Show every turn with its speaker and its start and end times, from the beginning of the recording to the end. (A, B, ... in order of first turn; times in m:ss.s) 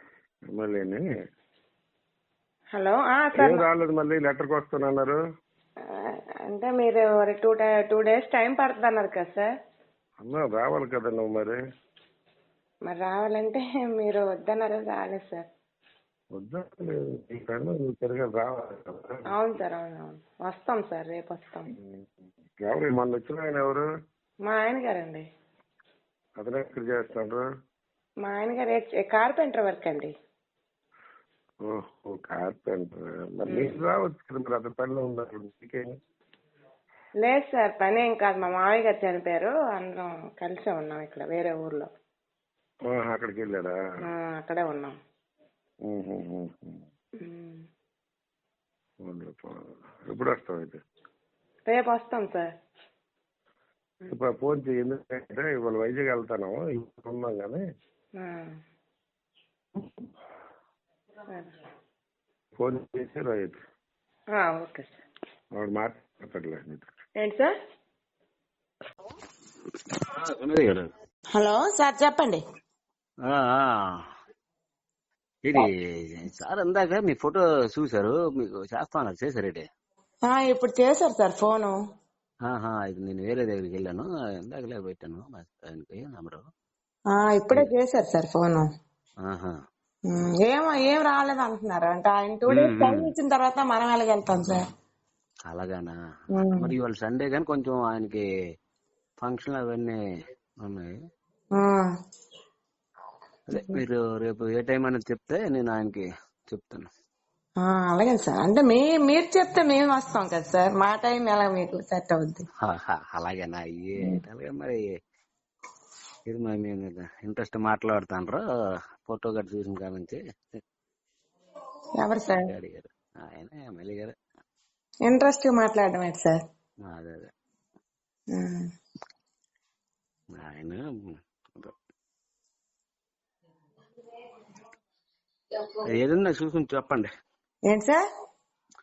0:00.5-0:01.0 A
0:02.8-0:03.6 B
0:03.4-0:05.2 A
0:05.9-0:09.5 B
0:10.2-0:11.6 A
0:12.9-0:15.5 B
0:16.3-0:19.3 A
0:19.3-0:21.7 B
0:21.7-0:22.0 A
0:22.6-0:23.8 A
0:24.4-0:25.2 B
0:26.4-0:27.4 A
0:28.2-0:30.1 B
0:31.6-0:35.9 A
0:33.5-0:33.8 B
0:37.2-0:41.9 B
0:42.9-0:43.8 A
0:44.1-0:45.0 B
0:45.9-0:46.8 A
0:47.2-0:47.6 B
0:49.0-0:50.8 A
0:51.7-0:52.5 B
0:54.1-0:57.6 A
0:58.2-0:58.5 B
1:01.3-1:01.6 B
1:02.6-1:03.6 A
1:04.4-1:04.9 B
1:05.5-1:06.8 A
1:07.2-1:07.5 B
1:10.0-1:10.9 C
1:11.3-1:12.4 B
1:13.2-1:14.0 C
1:15.4-1:19.6 C
1:20.3-1:21.8 B
1:22.5-1:26.4 C
1:27.1-1:28.7 B
1:29.2-1:29.5 C
1:30.1-1:34.7 B
1:32.5-1:33.1 C
1:35.5-1:35.9 C
1:36.4-1:36.7 B
1:36.5-1:38.2 C
1:39.2-1:40.0 C
1:40.6-1:40.9 C
1:41.6-1:41.9 B
1:43.5-1:46.9 C
1:43.5-1:43.8 B
1:47.6-1:52.4 B
1:52.6-1:54.8 C
1:56.3-1:58.4 C
1:59.0-2:00.2 C
2:02.0-2:02.5 B
2:02.3-2:04.1 C
2:05.1-2:06.4 B
2:06.9-2:07.3 C
2:08.4-2:08.7 B
2:10.4-2:10.8 C
2:16.0-2:17.1 C
2:17.7-2:18.0 B